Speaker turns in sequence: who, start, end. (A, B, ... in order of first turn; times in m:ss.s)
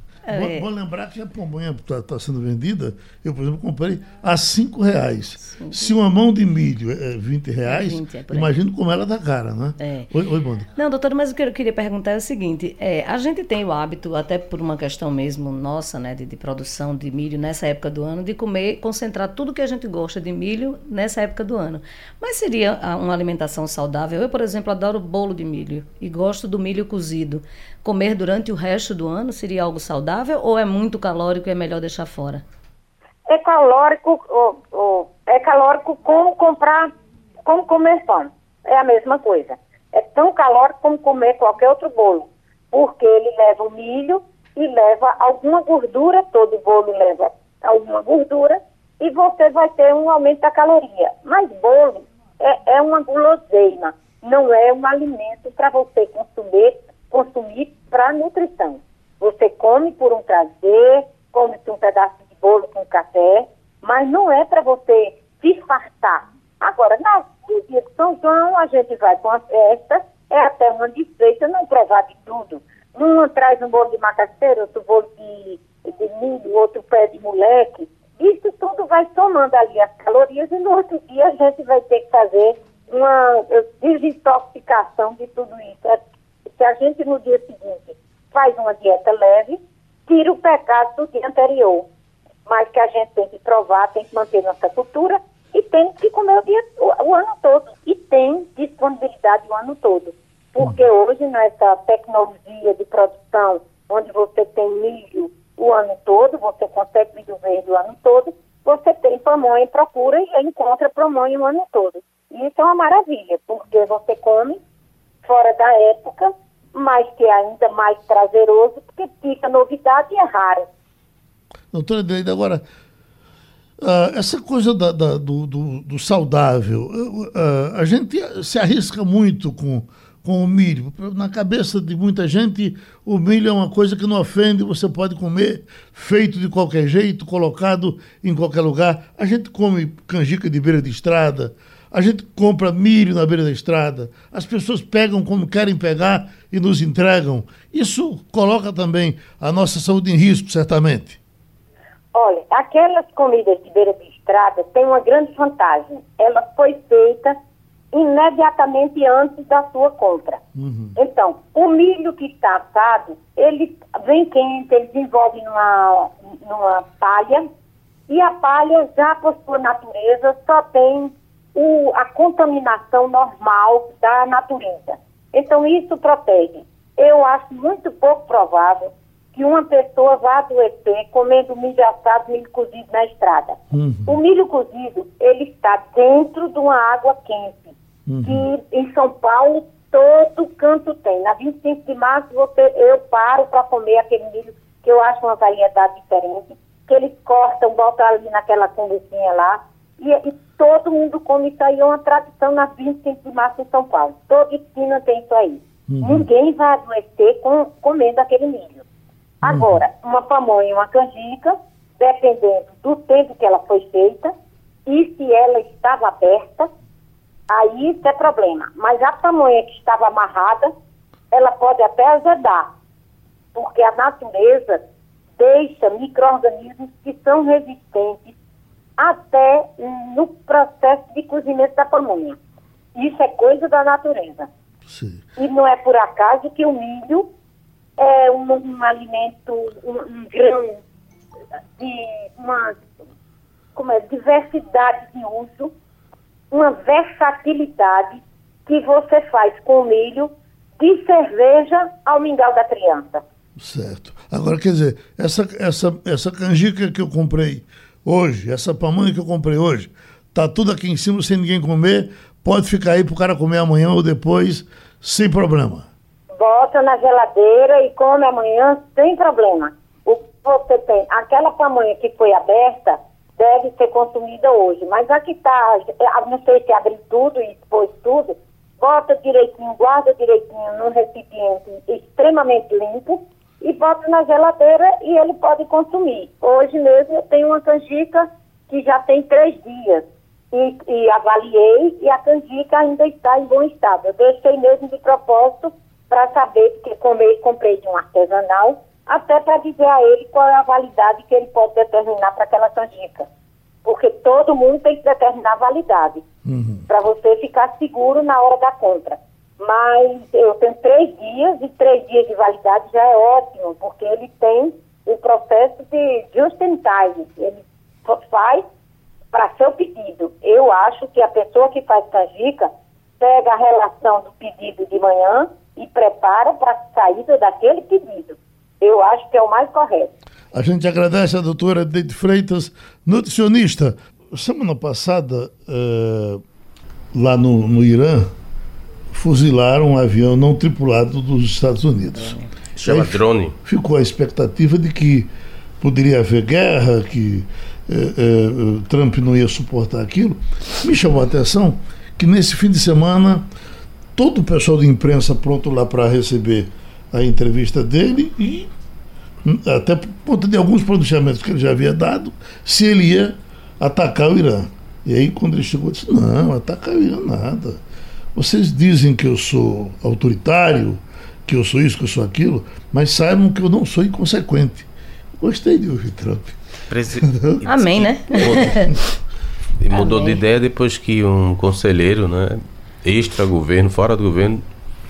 0:00.3-0:00.7 A
0:00.3-0:10.7 B
0:05.4-0:05.9 A
0:07.6-0:08.5 A
0:09.8-0:10.1 A
0:10.8-0:32.4 A
0:33.3-0:36.9 C
0:37.5-1:31.9 C
1:32.5-1:54.6 C
1:55.2-2:00.7 C
2:01.7-2:02.6 B
2:03.8-2:31.2 B
2:32.1-2:37.4 C
2:37.9-2:40.4 C
2:40.6-2:41.0 B
2:41.0-2:47.5 C
2:48.1-3:28.8 C
3:03.7-3:04.2 B
3:08.1-3:08.5 B
3:25.9-3:26.3 B
3:29.4-3:34.3 C
3:29.4-3:29.8 B
3:34.9-3:36.7 C
3:37.5-3:40.7 C
3:41.3-3:42.7 C
3:43.6-3:44.8 C
3:45.4-3:48.4 C
3:49.0-3:52.4 C
3:53.0-3:54.5 C
3:54.9-3:55.2 B
3:55.4-3:57.3 C
3:58.0-4:00.8 C
4:01.8-4:02.8 C
4:03.8-4:05.7 C
4:06.5-4:13.2 C
4:13.6-4:25.9 B
4:26.4-5:03.3 C
5:03.8-5:06.2 C
5:06.4-5:06.9 B
5:06.9-5:18.6 C
5:19.3-5:30.1 C
5:30.5-5:36.4 B
5:37.1-5:38.3 B
5:39.1-5:45.3 B
5:42.8-5:43.6 D
5:45.8-5:53.5 B
5:54.2-5:58.7 B
5:59.4-6:07.8 B
6:08.4-6:14.9 B
6:15.4-6:16.6 B
6:16.9-6:18.8 D
6:17.2-6:17.6 B
6:17.7-6:18.9 A
6:18.4-6:18.9 B
6:19.8-6:24.6 D
6:19.9-6:20.4 A